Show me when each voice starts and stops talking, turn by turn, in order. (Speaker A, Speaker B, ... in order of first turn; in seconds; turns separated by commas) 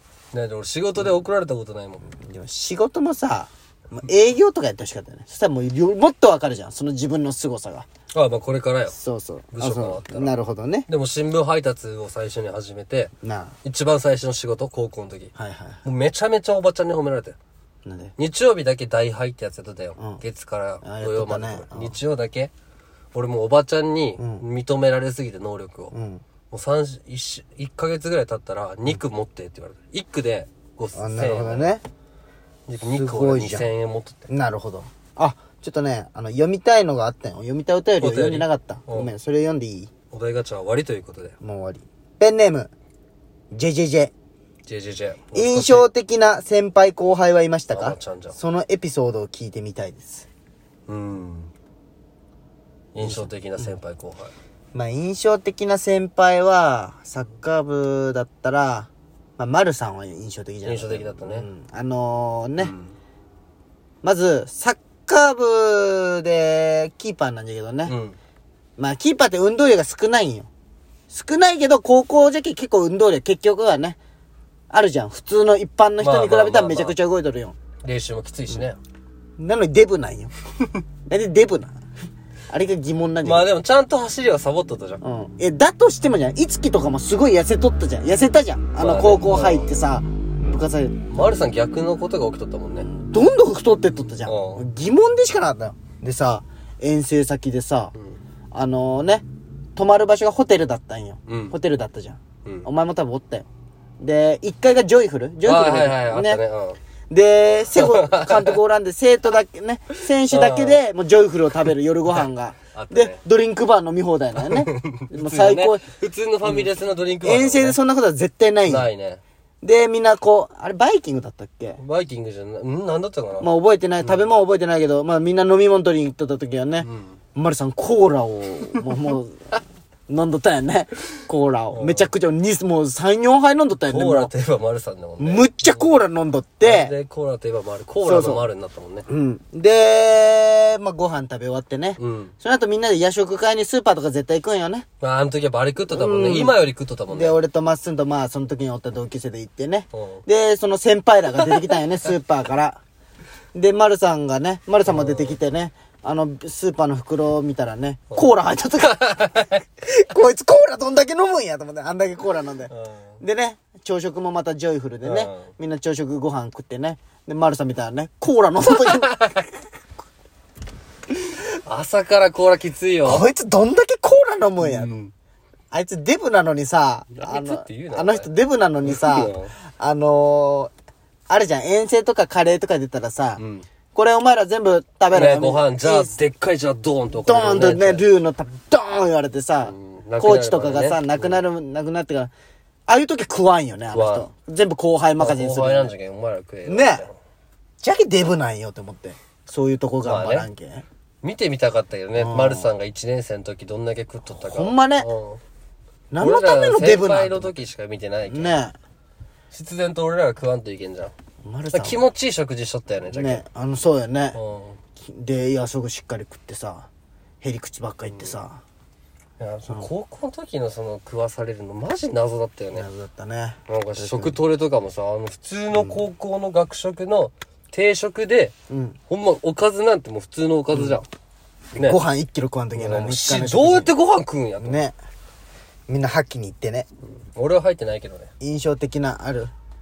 Speaker A: 0.3-2.0, Speaker B: 2.1-7.9, Speaker A: 8.1-9.0, Speaker B: 8.9-10.9, Speaker A: 9.5-10.3, Speaker A: 10.9-13.1, Speaker B: 13.2-13.6, Speaker A: 13.6-15.3, Speaker B: 15.4-15.8, Speaker A: 15.8-17.4, Speaker B: 17.9-18.1, Speaker A: 18.2-22.5, Speaker B: 20.0-20.2, Speaker B: 20.8-22.0, Speaker A: 23.1-25.9, Speaker B: 24.2-24.5, Speaker B: 25.9-26.2, Speaker A: 26.5-31.8, Speaker B: 30.9-31.8, Speaker A: 32.7-34.3, Speaker B: 32.9-33.7, Speaker B: 34.3-39.9, Speaker A: 38.0-39.1, Speaker A: 40.1-41.4, Speaker B: 41.4-42.7, Speaker B: 43.5-44.1, Speaker A: 44.7-45.9, Speaker B: 45.3-50.3, Speaker A: 47.7-48.4, Speaker A: 50.9-51.5, Speaker A: 53.0-54.3, Speaker B: 53.0-53.8, Speaker B: 54.7-62.8, Speaker A: 60.6-61.5, Speaker A: 62.6-63.0, Speaker B: 64.0-68.0, Speaker A: 67.9-68.2, Speaker B: 68.8-70.5, Speaker B: 71.1-74.0, Speaker B: 74.7-77.6, Speaker A: 76.0-77.0, Speaker A: 77.8-78.8, Speaker B: 79.4-80.3, Speaker B: 81.1-81.8, Speaker B: 82.5-83.5, Speaker A: 83.2-85.0, Speaker B: 85.0-91.1, Speaker A: 88.8-89.7, Speaker A: 91.1-92.9, Speaker B: 92.8-97.9, Speaker A: 94.3-94.6, Speaker B: 98.5-103.5, Speaker A: 101.3-101.6, Speaker B: 104.0-106.4, Speaker A: 105.5-106.8, Speaker B: 107.1-115.8, Speaker A: 107.8-108.6, Speaker A: 110.3-110.8, Speaker A: 112.1-113.2, Speaker A: 114.4-117.8, Speaker B: 116.4-116.7, Speaker B: 117.2-118.9, Speaker A: 118.7-119.2, Speaker B: 119.6-121.8, Speaker A: 121.8-123.5, Speaker B: 123.4-129.5, Speaker A: 126.8-127.2, Speaker B: 130.1-134.3, Speaker A: 131.7-132.1, Speaker A: 133.9-136.0, Speaker B: 135.2-136.9, Speaker A: 136.6-139.1, Speaker B: 138.0-138.5, Speaker B: 139.1-144.9, Speaker A: 142.0-142.3, Speaker A: 145.0-147.4, Speaker B: 145.9-146.6, Speaker B: 147.1-152.8, Speaker A: 149.9-150.2, Speaker B: 153.5-169.3, Speaker A: 154.9-155.4, Speaker A: 158.9-159.6, Speaker A: 162.7-163.2, Speaker A: 165.0-165.5, Speaker A: 168.8-169.4, Speaker A: 171.2-173.3, Speaker B: 173.1-174.9, Speaker A: 174.6-175.1, Speaker B: 175.7-180.7, Speaker A: 177.1-178.3, Speaker A: 178.8-179.6, Speaker B: 181.3-183.4, Speaker A: 183.4-183.7, Speaker B: 183.9-186.2, Speaker A: 185.1-188.1, Speaker B: 187.1-192.3, Speaker A: 189.6-191.4, Speaker B: 192.9-195.9, Speaker A: 193.9-194.3, Speaker A: 195.2-197.2, Speaker B: 196.7-197.1, Speaker B: 197.8-200.8, Speaker A: 200.0-200.5, Speaker A: 201.2-205.4, Speaker B: 202.2-202.7, Speaker B: 204.3-205.1, Speaker B: 206.1-207.6, Speaker A: 206.2-208.6, Speaker B: 208.3-208.7, Speaker A: 209.5-211.1, Speaker B: 211.4-212.0, Speaker A: 211.7-213.4, Speaker B: 213.1-214.4, Speaker A: 214.3-214.8, Speaker B: 215.0-216.9, Speaker B: 217.4-218.6, Speaker A: 219.4-222.9, Speaker B: 222.7-224.4, Speaker A: 223.7-228.5, Speaker B: 225.7-226.0, Speaker B: 228.7-229.0, Speaker A: 229.1-231.1, Speaker B: 230.7-231.0, Speaker B: 231.7-233.9, Speaker A: 232.8-234.9, Speaker B: 234.6-235.0, Speaker B: 235.9-236.9, Speaker A: 237.2-238.3, Speaker B: 238.4-239.5